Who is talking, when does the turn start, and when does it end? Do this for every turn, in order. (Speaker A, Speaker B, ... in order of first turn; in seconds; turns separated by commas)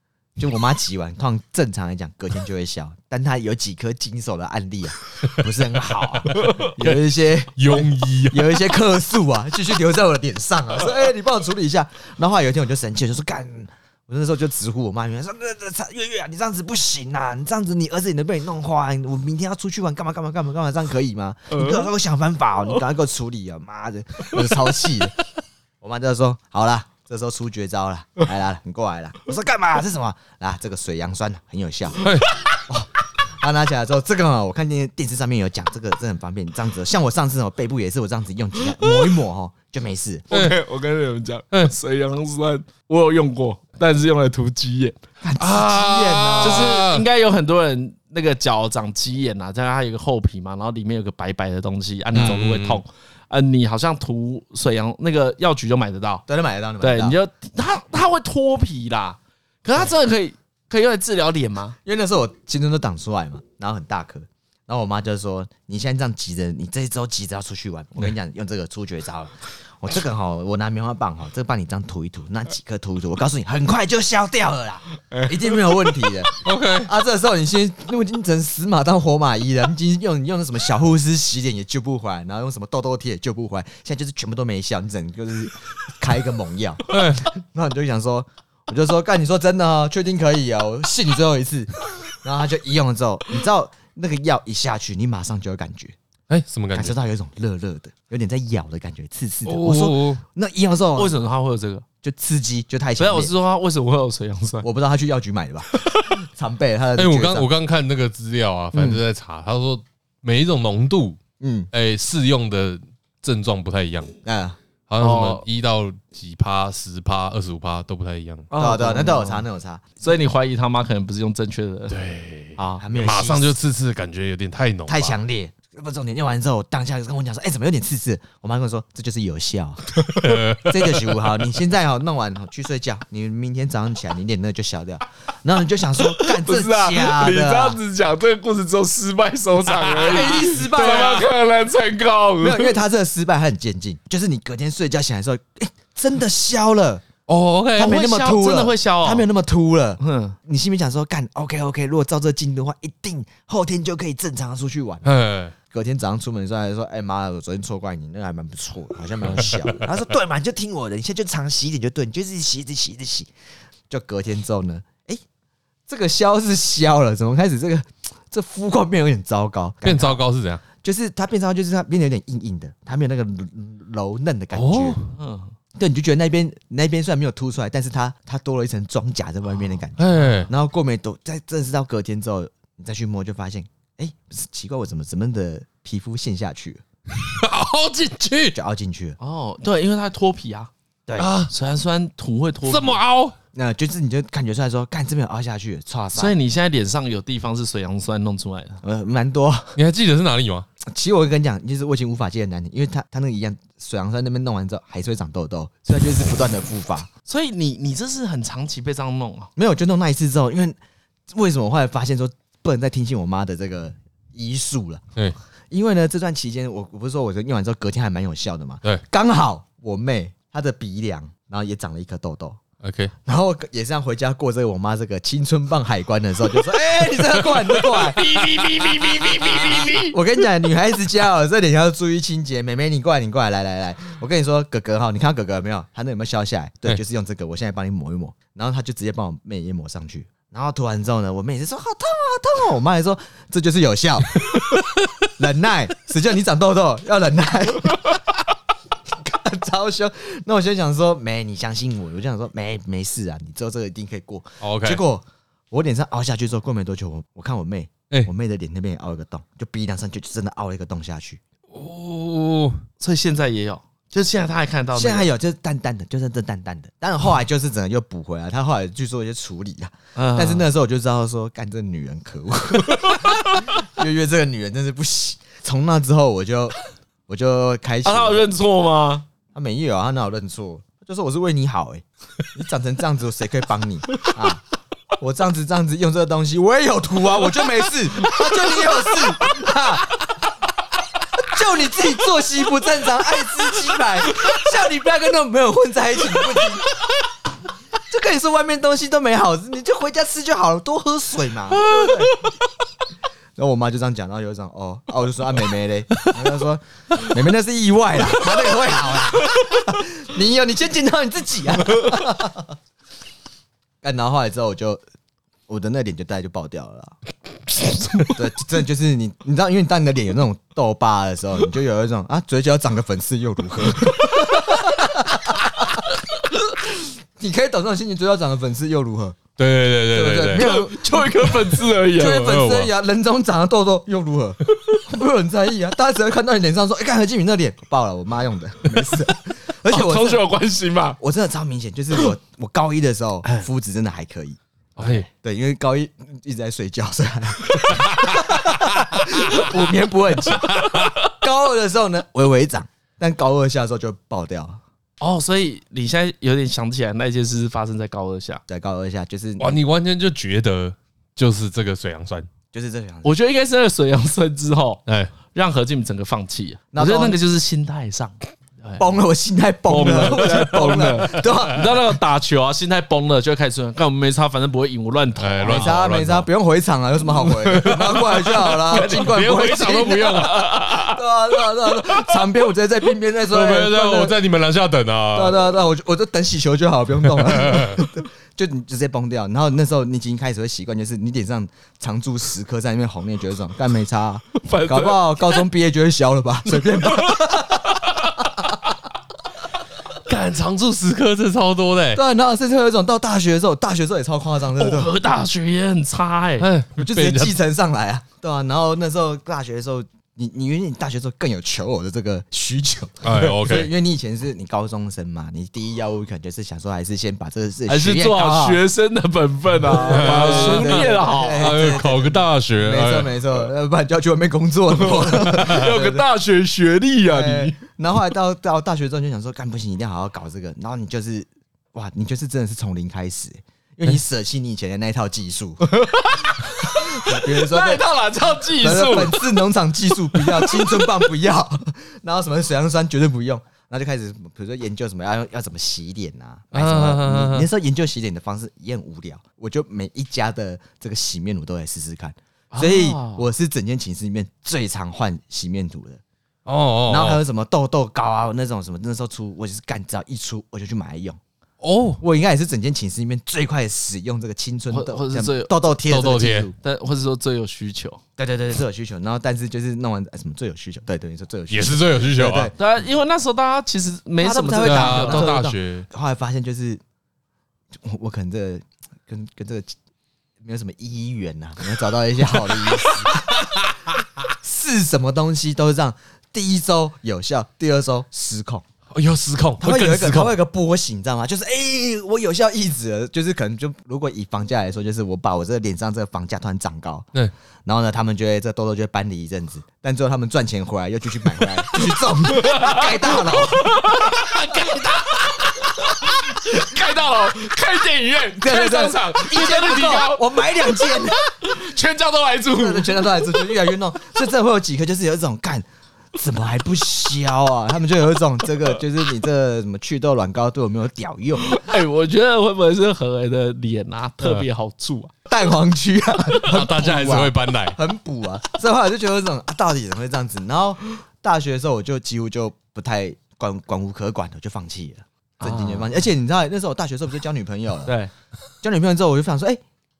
Speaker A: 0.4-25.1, Speaker B: 6.2-7.0, Speaker C: 6.3-6.7, Speaker B: 7.6-8.7, Speaker C: 21.5-21.8, Speaker A: 25.8-32.0, Speaker B: 32.0-32.3, Speaker A: 33.4-40.3, Speaker C: 40.3-45.0, Speaker B: 40.3-40.6, Speaker A: 45.2-46.8, Speaker B: 45.4-47.0, Speaker C: 46.4-56.2, Speaker A: 52.1-52.4, Speaker B: 52.1-52.8, Speaker A: 56.3-57.2, Speaker C: 56.8-61.8, Speaker A: 61.8-96.0, Speaker C: 75.0-75.8, Speaker B: 76.4-76.9, Speaker B: 86.9-87.2, Speaker B: 96.3-97.0, Speaker A: 96.7-101.2, Speaker B: 99.4-100.2, Speaker C: 101.0-101.8, Speaker A: 102.0-103.3, Speaker C: 103.0-104.7, Speaker A: 104.6-107.5, Speaker B: 107.0-111.2, Speaker A: 108.7-109.0, Speaker A: 111.4-111.7, Speaker B: 111.7-114.1, Speaker A: 114.2-114.6, Speaker B: 114.9-118.5, Speaker C: 115.0-115.4, Speaker C: 118.5-119.4, Speaker A: 118.5-119.9, Speaker C: 120.0-122.0, Speaker B: 121.9-125.1, Speaker A: 122.6-123.5, Speaker A: 124.9-130.0, Speaker B: 130.1-131.3, Speaker A: 130.6-137.8, Speaker C: 136.0-142.7, Speaker B: 139.8-140.3, Speaker A: 140.0-141.3, Speaker A: 142.4-147.0, Speaker B: 147.3-148.0, Speaker A: 147.8-155.1, Speaker C: 147.8-149.3, Speaker C: 150.0-150.3, Speaker B: 155.0-155.5, Speaker A: 155.7-163.3, Speaker A: 163.9-165.2, Speaker A: 165.9-170.2, Speaker B: 169.8-170.6, Speaker A: 170.8-175.0, Speaker B: 174.5-175.1, Speaker C: 175.1-175.5, Speaker A: 175.7-186.8, Speaker B: 180.0-180.5, Speaker B: 187.2-188.6, Speaker A: 188.5-189.2, Speaker C: 189.2-190.7, Speaker B: 191.2-191.5, Speaker C: 191.5-193.0, Speaker B: 192.6-193.3, Speaker A: 193.5-196.3, Speaker C: 196.1-198.8, Speaker A: 198.8-199.8, Speaker B: 199.7-200.7, Speaker A: 200.8-207.1, Speaker C: 207.3-209.5, Speaker A: 209.6-210.8, Speaker A: 211.3-215.0, Speaker A: 215.7-222.6, Speaker B: 222.8-223.1, Speaker A: 223.2-228.3, Speaker C: 228.0-230.2, Speaker B: 228.4-229.9, Speaker A: 230.0-244.6, Speaker B: 244.5-244.9, Speaker A: 245.4-248.2, Speaker A: 249.1-261.4, Speaker B: 254.6-255.0, Speaker B: 261.7-262.8, Speaker C: 263.0-265.3, Speaker A: 264.9-276.8, Speaker C: 270.1-270.6, Speaker A: 277.3-278.5, Speaker C: 278.0-279.2, Speaker A: 279.5-284.6, Speaker A: 285.2-290.2, Speaker A: 291.4-296.9, Speaker A: 298.1-302.4, Speaker B: 301.9-302.3, Speaker A: 303.6-312.8, Speaker A: 314.0-315.0, Speaker A: 315.7-317.1, Speaker A: 318.3-326.0, Speaker A: 326.7-329.4, Speaker B: 329.6-330.7, Speaker A: 330.1-331.3, Speaker C: 330.6-332.5, Speaker A: 332.1-340.4, Speaker B: 332.2-332.9, Speaker C: 339.9-341.2, Speaker A: 341.2-354.8, Speaker B: 345.0-345.3, Speaker B: 350.6-351.1, Speaker C: 355.2-358.6, Speaker A: 358.7-359.8, Speaker B: 359.6-362.5, Speaker A: 362.7-363.3, Speaker C: 363.2-369.0, Speaker B: 365.1-365.3, Speaker A: 366.9-367.4, Speaker A: 369.0-372.0, Speaker C: 369.9-375.9, Speaker B: 370.1-371.0, Speaker B: 375.4-376.5, Speaker A: 375.6-384.4, Speaker C: 377.4-381.2, Speaker B: 377.9-378.2, Speaker B: 378.9-380.6, Speaker B: 383.5-385.7, Speaker A: 385.3-398.6, Speaker B: 387.4-388.0, Speaker C: 394.6-395.6, Speaker B: 400.3-402.2, Speaker A: 402.1-405.1, Speaker C: 404.7-406.7, Speaker B: 406.6-407.5, Speaker A: 406.9-418.8, Speaker B: 413.2-413.9, Speaker C: 417.9-421.8, Speaker A: 419.8-426.2, Speaker B: 420.0-423.6, Speaker C: 424.9-427.8, Speaker B: 425.6-425.8, Speaker A: 427.3-435.9, Speaker C: 435.8-439.4, Speaker A: 436.8-438.1, Speaker A: 438.7-456.2, Speaker C: 440.4-440.9, Speaker B: 446.8-447.6, Speaker C: 452.7-453.5, Speaker B: 456.6-457.4, Speaker A: 457.1-461.4, Speaker B: 461.8-462.2, Speaker A: 462.2-466.7, Speaker C: 464.9-465.7, Speaker B: 466.1-466.7, Speaker C: 466.8-468.2, Speaker A: 468.4-472.7, Speaker B: 471.7-472.7, Speaker C: 472.8-475.5, Speaker A: 474.4-477.0, Speaker B: 474.8-476.1, Speaker A: 477.9-479.9, Speaker A: 480.6-483.7, Speaker B: 483.1-483.9, Speaker A: 484.6-488.8, Speaker B: 489.1-490.6, Speaker A: 489.8-497.3, Speaker A: 497.9-504.7, Speaker C: 502.5-513.7, Speaker A: 508.6-511.4, Speaker A: 512.7-521.8, Speaker C: 521.6-525.3, Speaker A: 525.5-538.1, Speaker B: 526.6-528.0, Speaker C: 535.6-536.1, Speaker C: 538.0-538.3, Speaker A: 538.8-539.8